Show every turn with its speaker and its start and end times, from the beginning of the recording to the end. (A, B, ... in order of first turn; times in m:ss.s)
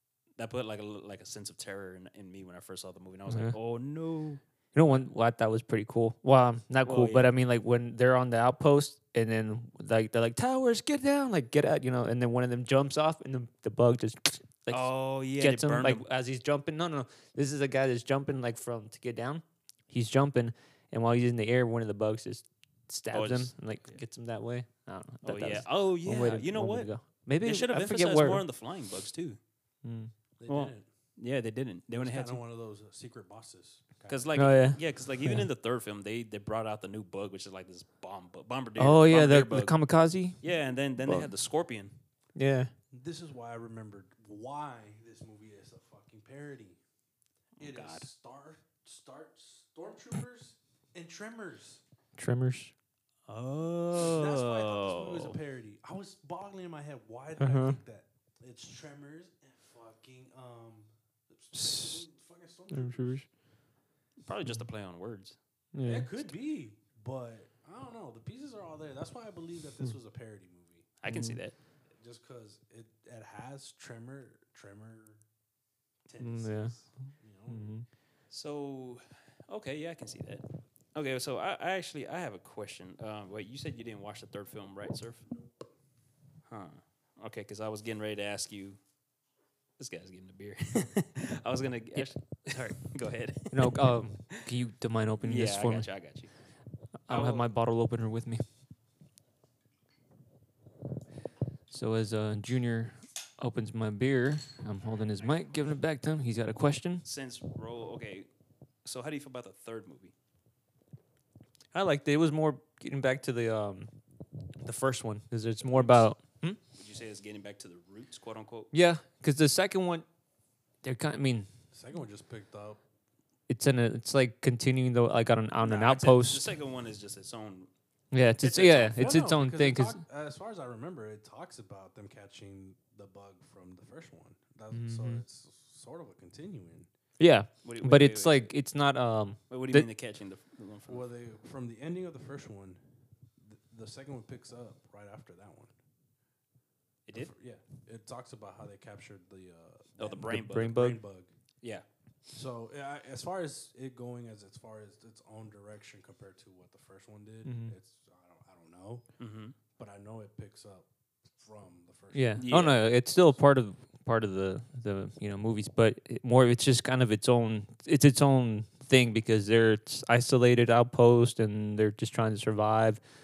0:00.4-0:05.1 A
0:03.3-0:03.6 B
0:04.8-0:28.4 B
0:06.8-0:07.3 A
0:14.7-0:16.0 A
0:23.1-0:24.0 A
0:25.2-0:29.4 A
0:29.8-0:30.1 B
0:30.4-0:30.9 C
0:30.5-0:32.4 A
0:31.9-0:34.3 C
0:34.1-0:39.8 A
0:34.3-0:35.4 B
0:38.8-0:40.4 B
0:40.4-0:41.9 A
0:41.0-0:41.3 B
0:42.4-0:42.7 B
0:42.9-0:46.8 C
0:47.6-0:48.1 A
0:47.6-0:51.8 C
0:52.2-0:52.7 B
0:53.3-0:55.4 A
0:54.0-1:03.2 C
0:57.4-0:57.8 B
1:01.5-1:02.0 B
1:02.7-1:03.3 B
1:04.2-1:05.4 A
1:05.7-1:06.1 B
1:05.8-1:10.9 C
1:11.0-1:11.6 A
1:11.1-1:11.4 B
1:12.0-1:15.2 C
1:16.1-1:17.7 C
1:16.2-1:16.9 B
1:17.5-1:17.8 B
1:18.3-1:20.4 A
1:21.0-1:25.3 A
1:26.5-1:28.8 A
1:29.8-1:34.4 A
1:32.0-1:32.4 B
1:33.5-1:35.9 B
1:35.2-1:36.3 A
1:37.0-1:38.4 B
1:37.1-1:37.5 A
1:41.7-1:47.0 B
1:47.0-1:48.3 A
1:48.8-1:50.1 A
1:51.7-1:53.9 B
1:54.6-1:56.6 B
1:55.6-1:56.1 A
1:56.7-1:58.7 A
1:58.7-2:00.0 B
2:00.8-2:01.5 B
2:01.7-2:02.8 C
2:03.5-2:06.5 B
2:05.6-2:07.7 A
2:08.1-2:10.0 B
2:08.4-2:09.2 A
2:09.0-2:16.9 C
2:14.7-2:15.2 B
2:17.2-2:19.9 B
2:17.6-2:18.5 A
2:19.5-2:21.0 A
2:20.9-2:22.9 C
2:23.4-2:25.7 C
2:27.1-2:31.3 C
2:30.0-2:30.8 A
2:30.3-2:31.0 B
2:32.3-2:39.1 C
2:37.4-2:37.8 B
2:39.2-2:39.6 A
2:39.8-2:42.5 C
2:42.1-2:53.0 B
2:42.4-2:42.8 A